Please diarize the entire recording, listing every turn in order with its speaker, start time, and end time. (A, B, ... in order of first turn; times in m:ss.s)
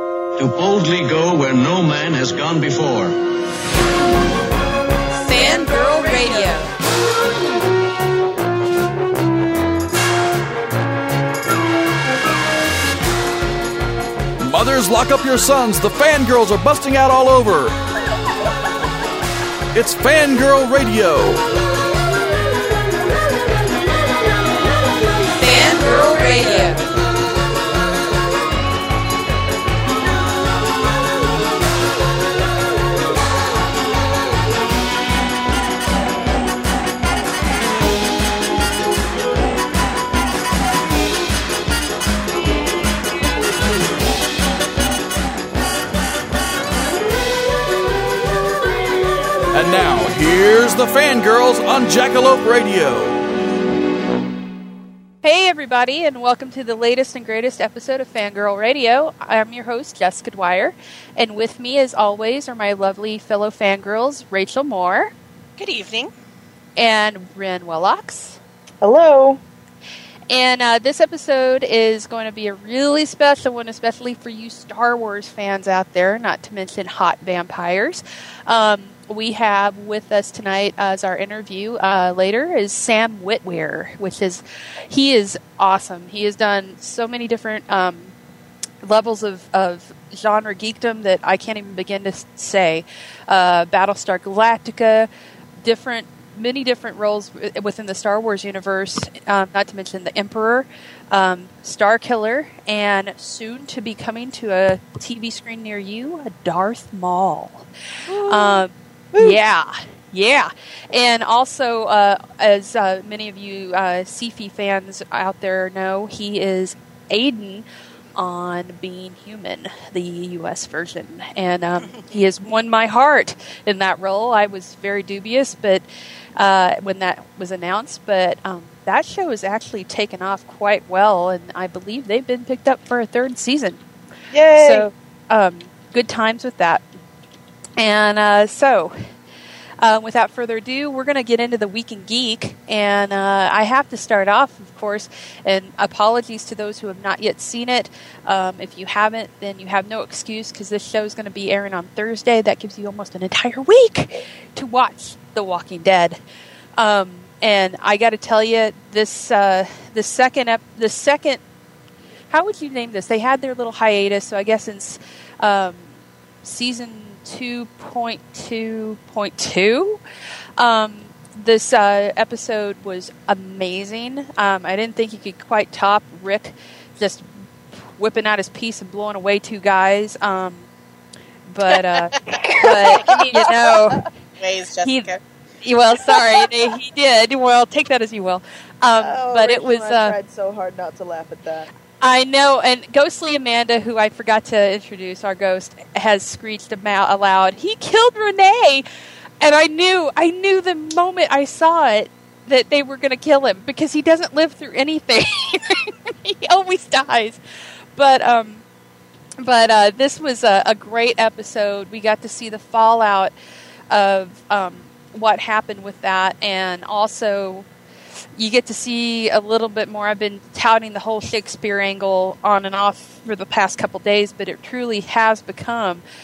0:00.4-0:03.2 A
0:05.2-0:06.7 B
0:14.4-0:17.8 C
0:19.7-0:21.4 C
0:25.4-0:26.8 B
0:49.5-0:53.2 C
0:55.2-1:05.2 B
1:05.6-1:06.1 D
1:06.8-1:08.4 B
1:08.8-1:09.4 E
1:10.3-1:28.1 B
1:28.8-1:35.1 B
1:35.6-1:47.7 B
1:48.1-1:49.4 E
1:48.3-1:57.6 B
1:58.2-2:05.8 B
2:06.4-2:13.8 B
2:14.3-2:14.9 E
2:14.6-2:16.8 B
2:17.8-2:18.9 B
2:19.8-2:36.2 B
2:36.8-2:41.4 B
2:42.3-2:45.9 B
2:46.4-2:50.0 B
2:50.6-3:00.7 B
3:01.5-3:04.1 B
3:02.3-3:03.7 E
3:02.7-3:03.5 D
3:04.4-3:05.2 D
3:04.8-3:05.1 B
3:05.6-3:10.2 B
3:09.0-3:11.7 E
3:12.0-3:18.8 B
3:19.4-3:27.4 B
3:28.0-3:28.6 B
3:29.4-3:33.3 B
3:33.9-3:37.7 B
3:38.4-3:46.0 B